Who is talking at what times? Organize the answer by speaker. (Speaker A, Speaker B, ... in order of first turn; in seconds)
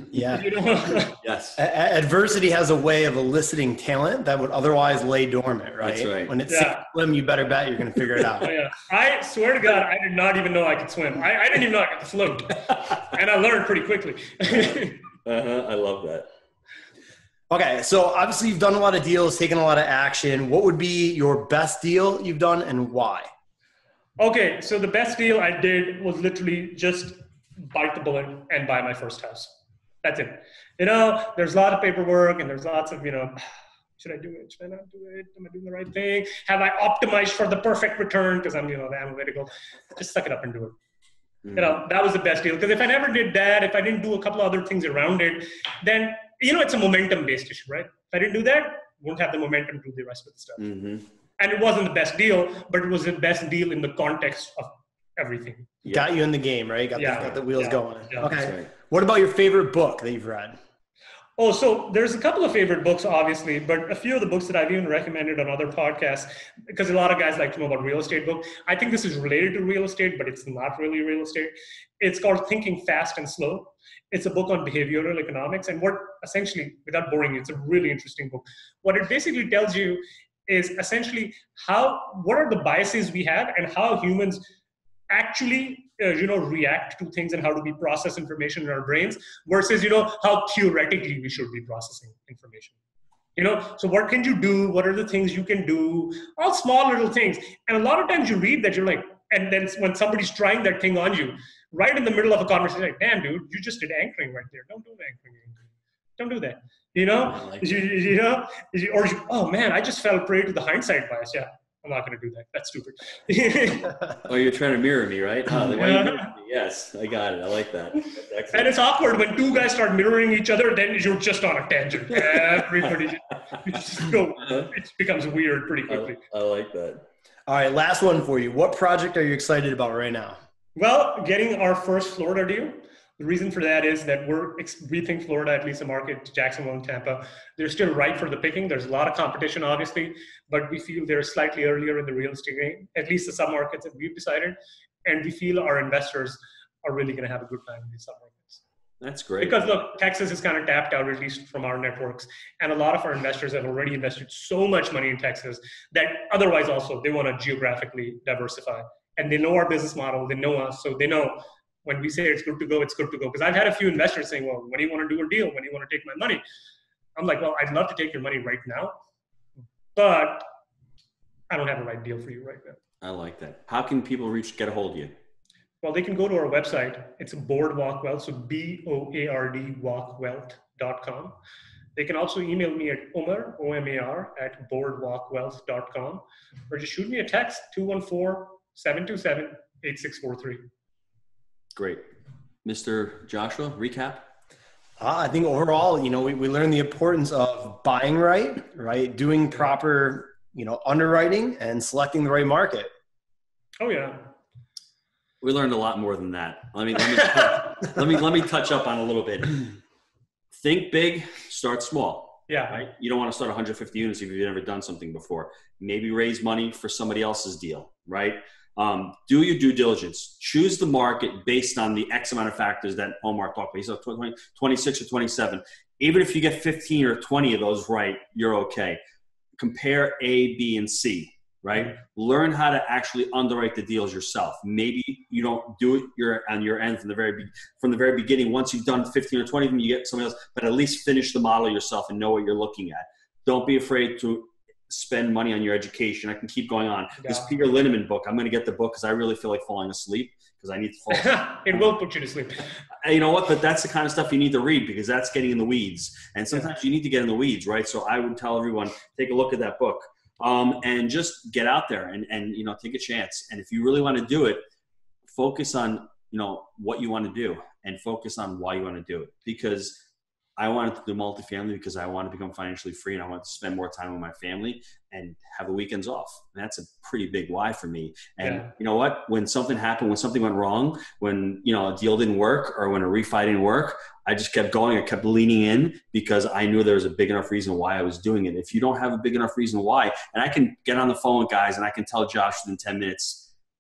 Speaker A: 0.1-0.5, 1.6-8.5, 17.5-23.3, 55.9-60.6, 127.5-130.4, 195.0-202.9
Speaker B: 0.3-1.2, 6.5-6.8, 8.4-15.0, 24.2-29.5, 30.0-40.8, 41.5-50.7, 51.4-55.7, 57.0-58.3, 61.4-84.4, 85.1-92.8, 93.4-113.9, 115.7-116.3, 118.5-126.2, 130.8-148.6, 149.4-166.4, 167.2-169.0, 170.0-170.5, 171.5-172.8, 175.8-181.3, 182.0-190.7, 203.8-204.3, 207.2-207.5, 212.5-212.8, 247.2-247.5, 251.1-252.7, 278.4-278.7
Speaker C: 1.2-1.6, 5.8-6.3, 14.6-16.3, 41.5-41.8, 50.6-51.1, 58.3-58.7, 107.2-107.9, 114.2-118.8, 124.4-124.7, 125.9-127.1, 149.0-149.6, 173.0-175.1, 191.8-192.0, 192.7-194.2, 205.4-209.8, 210.5-229.0, 229.6-251.8, 253.0-264.6, 265.3-270.0, 270.6-293.5